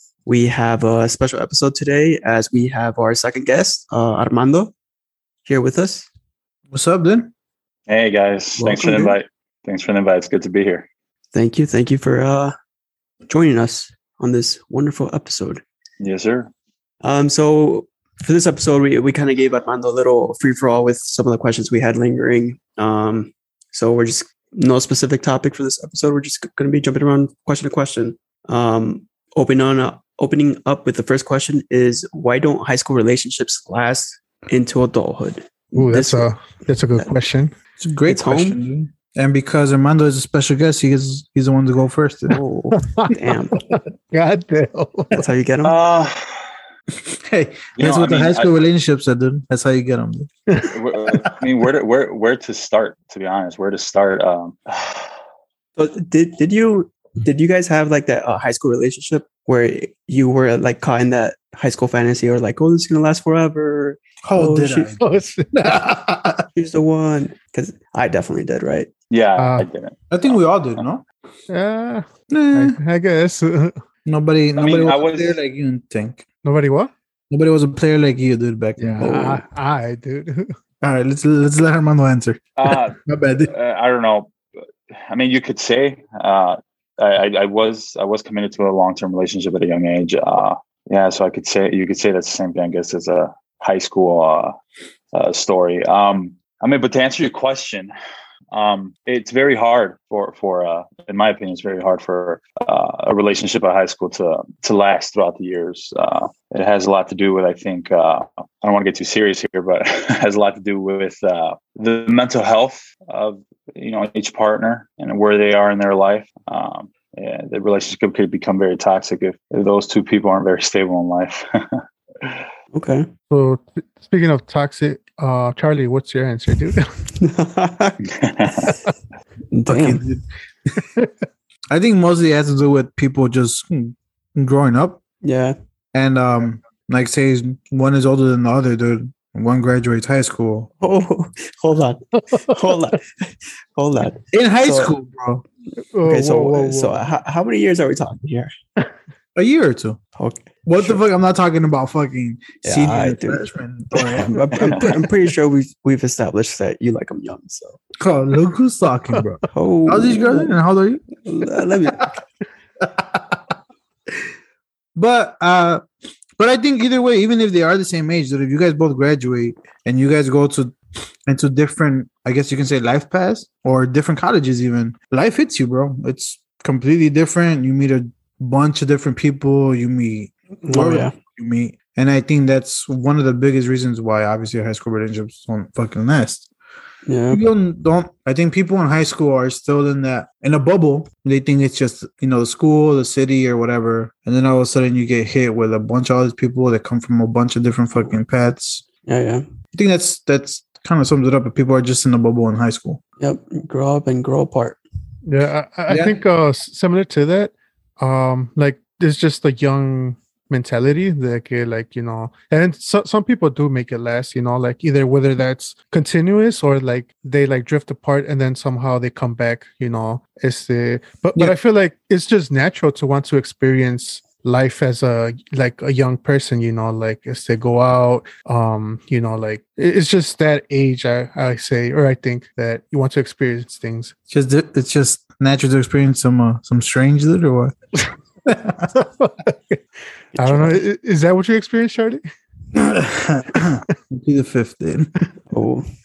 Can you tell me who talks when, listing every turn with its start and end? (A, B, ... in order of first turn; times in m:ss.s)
0:00.2-0:04.7 A
0:05.4-0:06.1 A
0:06.7-0:07.3 B
0:07.9-0:10.9 C
0:08.6-0:09.2 A
0:11.3-0:12.5 A
0:13.3-0:15.6 A
0:16.0-0:16.5 C
0:17.0-0:36.3 A
0:35.7-0:37.5 D
0:37.8-0:42.4 B
0:38.0-0:38.6 A
0:42.3-0:43.6 A
0:42.8-0:45.3 D
0:45.1-0:45.8 A
0:45.6-0:46.5 C
0:47.0-0:50.3 B
0:47.8-0:48.5 C
0:50.7-0:55.1 C
0:55.8-1:05.0 A
1:04.2-1:05.0 B
1:05.0-1:05.5 D
1:05.5-1:06.4 B
1:06.5-1:08.9 A
1:09.1-1:10.8 C
1:09.4-1:09.7 D
1:10.1-1:11.0 B
1:11.5-1:13.8 D
1:12.3-1:12.8 B
1:14.0-1:16.2 B
1:14.6-1:15.4 C
1:16.4-1:16.9 D
1:17.3-1:19.3 B
1:18.8-1:20.5 D
1:19.0-1:19.4 A
1:20.8-1:23.5 B
1:22.6-1:24.3 C
1:25.1-1:34.5 C
1:35.1-1:37.9 C
1:38.5-2:02.4 C
2:02.7-2:03.1 A
2:03.3-2:06.9 D
2:07.2-2:08.0 A
2:08.1-2:08.7 C
2:09.5-2:10.0 A
2:09.7-2:10.2 B
2:11.7-2:15.0 B
2:15.2-2:15.5 A
2:15.9-2:20.7 B
2:20.8-2:24.9 A
2:22.2-2:22.9 D
2:24.3-2:25.4 B
2:25.9-2:27.0 D
2:26.1-2:28.5 A
2:29.3-2:30.0 B
2:30.2-2:31.0 A
2:30.6-2:35.0 B
2:32.6-2:37.8 A
2:34.6-2:34.9 C
2:38.0-2:41.0 B
2:39.5-2:40.5 A
2:41.2-2:42.2 A
2:42.8-2:43.4 B
2:44.9-2:45.8 B
2:46.4-2:50.8 B
2:51.3-3:06.5 B
3:00.7-3:01.2 A
3:07.0-3:07.4 A
3:07.3-3:18.8 B
3:19.0-3:19.4 A
3:19.7-3:23.0 B
3:23.2-3:24.8 A
3:25.2-3:54.1 D
3:25.9-3:26.2 B
3:54.3-3:57.7 B
3:58.4-3:58.8 B
3:58.9-3:59.8 D
4:00.4-4:00.8 A
4:00.4-4:02.2 D
4:02.7-4:05.1 B
4:05.5-4:05.8 A